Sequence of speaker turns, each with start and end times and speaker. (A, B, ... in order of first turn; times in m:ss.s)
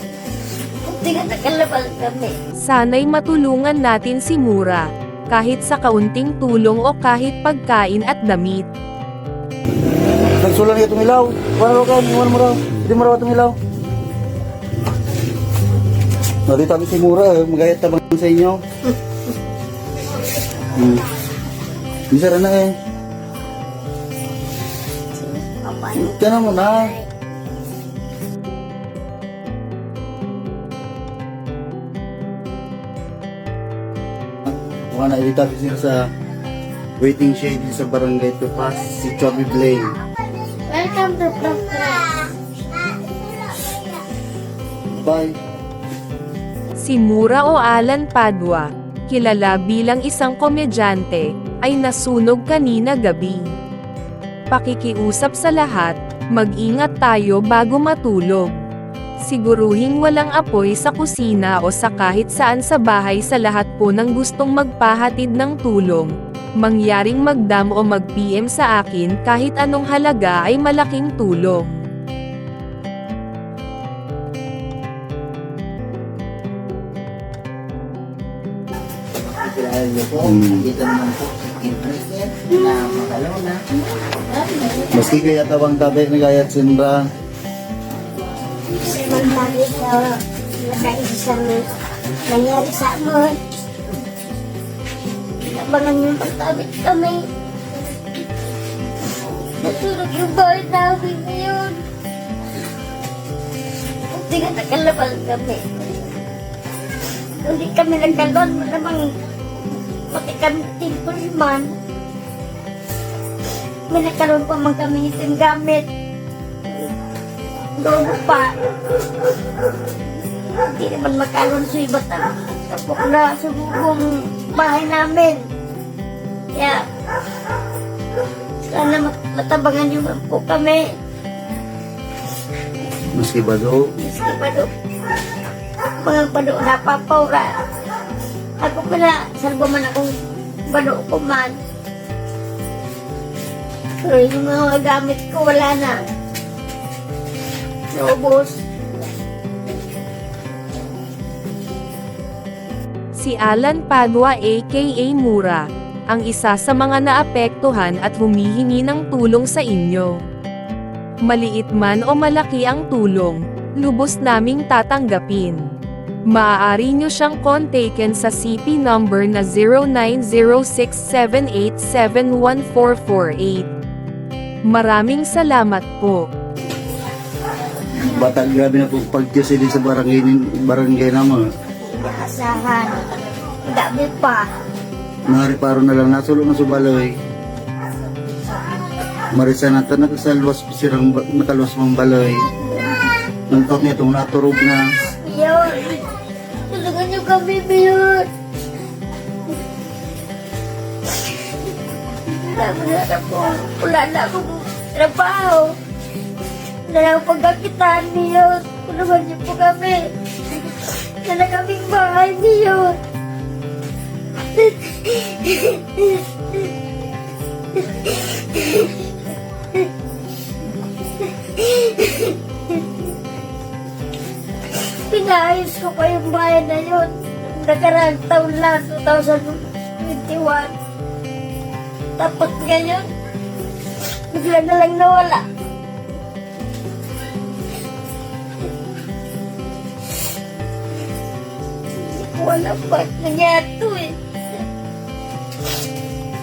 0:00.8-0:02.3 A
0:02.6-0:08.7 B
0:09.9-0:13.6 C
0:16.5-0:18.6 C
0:20.8-0:21.1 C
0:22.1-0:22.8 C
0:25.2-0:27.0 A
0:26.0-0:26.9 C
0:34.5-0:36.1 C
0:37.0-0:40.0 C
0:40.7-0:42.3 A
0:44.9-0:45.4 C
0:46.8-0:53.5 B
0:54.5-0:58.6 B
0:59.2-1:11.8 B
1:19.2-1:23.6 D
1:20.2-1:20.7 C
1:24.9-1:27.0 C
1:28.8-1:31.7 A
1:32.3-1:33.4 A
1:35.4-1:37.3 A
1:39.6-1:41.8 A
1:44.1-1:45.6 A
1:47.4-1:49.1 A
1:50.1-1:51.7 A
1:53.9-1:55.9 A
1:57.8-1:58.5 A
2:00.7-2:05.4 A
2:06.5-2:06.8 A
2:08.7-2:10.8 A
2:13.1-2:13.8 C
2:14.0-2:14.7 A
2:16.0-2:17.5 A
2:18.6-2:20.1 A
2:20.7-2:21.6 A
2:24.0-2:26.0 A
2:27.9-2:28.6 A
2:33.2-2:40.2 B
2:41.3-2:45.7 B
2:46.3-2:53.7 B
2:54.7-2:56.3 B
2:58.0-3:01.5 C
3:01.9-3:03.1 A
3:03.7-3:04.5 A
3:05.3-3:07.2 C
3:09.3-3:12.5 C
3:13.5-3:14.8 C
3:15.2-3:16.0 A
3:16.6-3:18.3 A
3:22.3-3:25.8 A
3:26.9-3:30.1 A
3:31.2-3:33.0 A
3:34.5-3:36.7 A
3:37.8-3:38.9 A
3:41.4-3:42.8 A
3:44.9-3:50.7 A
3:52.2-3:53.1 A
3:54.3-3:55.4 A
4:02.0-4:04.2 A